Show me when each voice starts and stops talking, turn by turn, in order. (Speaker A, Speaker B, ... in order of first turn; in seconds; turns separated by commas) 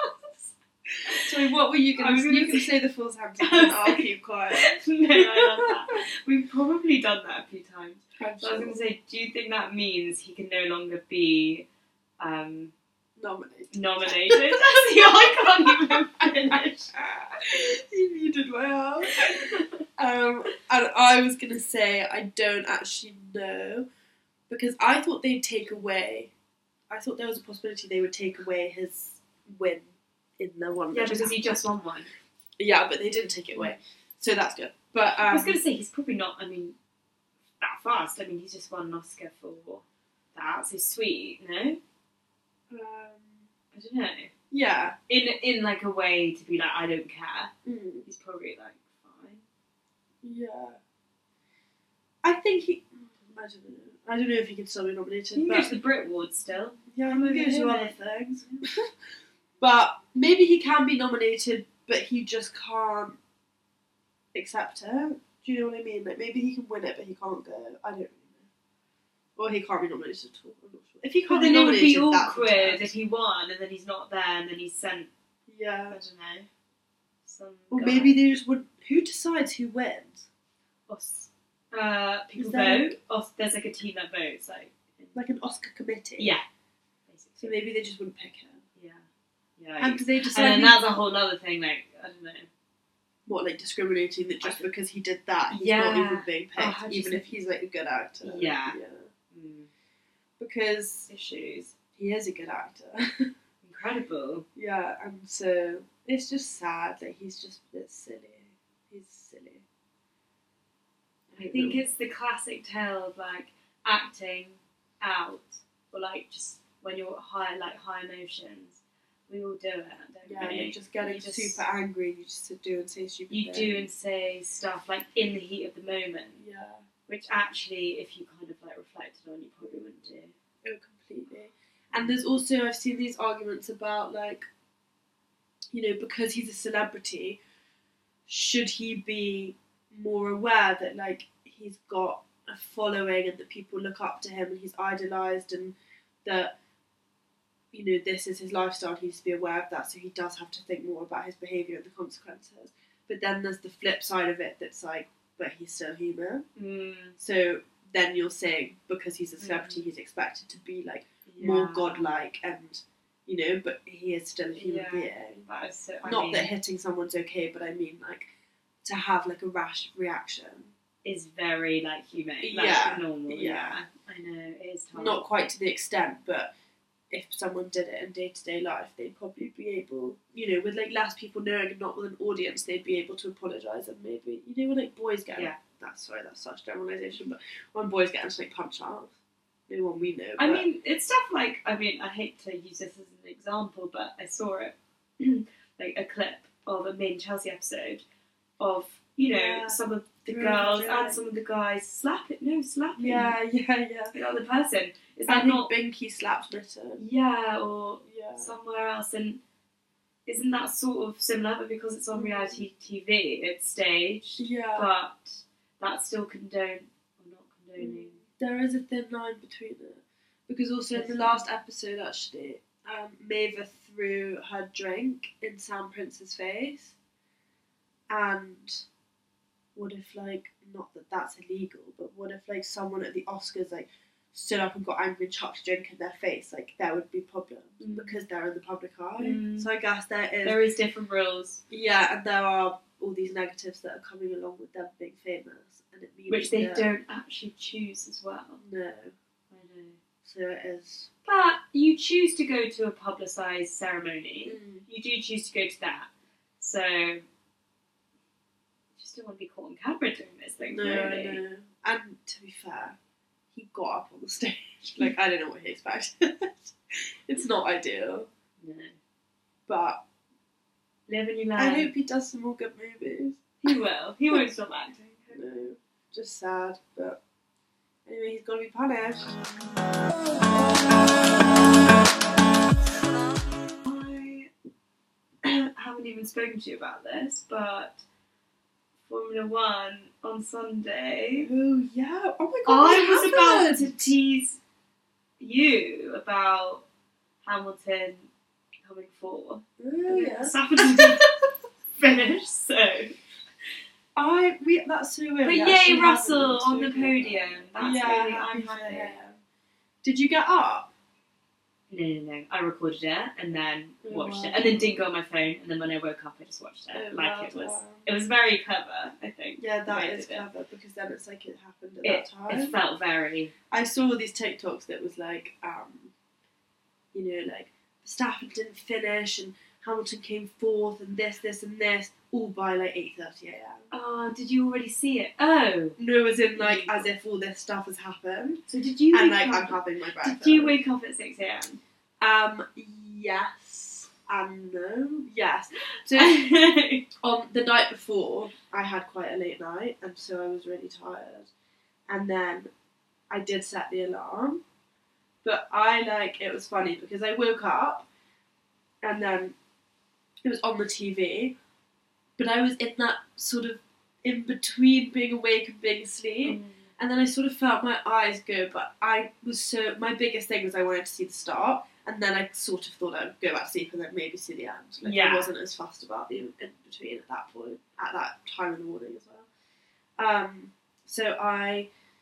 Speaker A: 1.1-5.9, Speaker B: 2.0-2.7, Speaker B: 3.4-11.7, Speaker A: 8.2-8.8, Speaker B: 12.2-12.7, Speaker A: 13.2-23.9, Speaker B: 13.7-16.9, Speaker B: 19.2-19.8, Speaker A: 24.5-26.3, Speaker A: 26.9-31.6, Speaker B: 30.9-32.1, Speaker A: 32.6-35.6, Speaker B: 35.2-36.8, Speaker B: 37.6-41.8, Speaker A: 42.7-43.5, Speaker B: 43.7-44.3, Speaker A: 44.5-44.9, Speaker B: 45.1-47.5, Speaker A: 47.7-48.1, Speaker B: 48.1-49.4, Speaker A: 50.2-50.8, Speaker A: 52.2-55.7, Speaker B: 55.3-58.0, Speaker A: 56.9-58.9, Speaker A: 59.6-63.2, Speaker A: 64.3-68.5, Speaker A: 69.4-72.9, Speaker B: 71.3-75.1, Speaker A: 75.5-76.0, Speaker B: 75.9-76.5, Speaker B: 77.3-78.2, Speaker A: 77.7-80.3, Speaker B: 80.9-85.2, Speaker A: 82.4-83.0, Speaker A: 85.2-86.3, Speaker B: 86.2-86.5, Speaker B: 87.1-87.6, Speaker A: 87.4-88.6, Speaker B: 88.8-89.1, Speaker B: 89.6-92.5, Speaker A: 89.8-90.9, Speaker A: 93.3-99.1, Speaker B: 94.4-94.7, Speaker B: 95.5-97.3, Speaker B: 98.2-98.8, Speaker B: 99.3-99.7, Speaker A: 100.4-101.1, Speaker B: 101.1-101.8, Speaker A: 102.0-103.3, Speaker B: 103.6-104.5, Speaker A: 104.6-109.6, Speaker A: 111.3-111.8, Speaker B: 111.4-121.6, Speaker A: 120.3-123.9, Speaker B: 123.3-126.5, Speaker A: 126.4-126.9, Speaker B: 127.1-130.3, Speaker A: 130.6-134.5, Speaker B: 131.9-132.2, Speaker A: 135.7-137.4, Speaker A: 138.3-146.5, Speaker A: 147.7-156.4, Speaker B: 156.6-157.2, Speaker A: 157.2-165.5, Speaker B: 159.4-159.9, Speaker B: 161.3-162.2, Speaker B: 164.6-166.5, Speaker A: 166.0-168.3, Speaker A: 168.8-170.7, Speaker B: 171.1-175.2, Speaker A: 172.4-173.8, Speaker A: 174.9-176.5, Speaker A: 177.1-189.2, Speaker B: 185.3-185.6, Speaker A: 189.7-190.6, Speaker B: 190.4-198.0, Speaker B: 198.6-203.4, Speaker A: 199.2-201.3, Speaker A: 203.0-204.1, Speaker B: 204.1-205.7, Speaker A: 205.3-207.0, Speaker B: 207.0-209.4, Speaker A: 208.0-208.5, Speaker B: 210.3-218.2, Speaker A: 212.1-212.6, Speaker A: 214.4-214.9, Speaker A: 217.8-226.9, Speaker B: 220.9-221.4, Speaker A: 228.1-228.9, Speaker A: 229.8-240.6, Speaker B: 237.8-238.2, Speaker B: 239.2-239.7, Speaker B: 240.4-241.6, Speaker A: 241.7-246.9, Speaker B: 246.3-248.6, Speaker A: 248.6-249.1, Speaker B: 249.5-250.0, Speaker A: 250.2-251.1, Speaker B: 251.2-256.1, Speaker A: 254.4-254.9, Speaker B: 256.6-257.2, Speaker B: 259.0-261.4, Speaker A: 260.7-263.0, Speaker A: 263.5-268.3, Speaker B: 268.6-269.0, Speaker A: 269.7-270.0, Speaker B: 271.1-271.9, Speaker A: 271.6-273.7, Speaker B: 273.6-275.4, Speaker A: 275.3-277.2, Speaker A: 278.1-279.5, Speaker B: 283.8-284.5, Speaker B: 285.4-288.0, Speaker B: 289.1-291.5, Speaker A: 291.4-294.2, Speaker B: 292.7-294.6, Speaker B: 295.4-296.9, Speaker B: 297.4-298.3, Speaker B: 298.8-301.3, Speaker A: 299.8-301.2, Speaker B: 301.9-303.2, Speaker A: 304.2-309.4, Speaker B: 305.4-309.2, Speaker A: 310.0-310.9, Speaker B: 311.9-320.5, Speaker A: 314.0-315.0, Speaker A: 316.9-318.0, Speaker A: 319.6-322.8, Speaker B: 322.0-323.5, Speaker A: 323.7-326.1, Speaker A: 327.1-333.9, Speaker B: 333.9-336.0, Speaker A: 336.0-340.8, Speaker B: 336.6-337.1, Speaker B: 338.7-341.8, Speaker A: 342.2-346.4, Speaker B: 346.1-347.1, Speaker A: 347.2-351.5, Speaker A: 352.1-352.7, Speaker A: 353.3-354.6, Speaker A: 355.4-358.1, Speaker A: 359.0-359.6, Speaker A: 360.4-361.6, Speaker A: 362.4-379.5, Speaker B: 366.4-366.9, Speaker B: 375.0-375.5, Speaker A: 380.2-381.9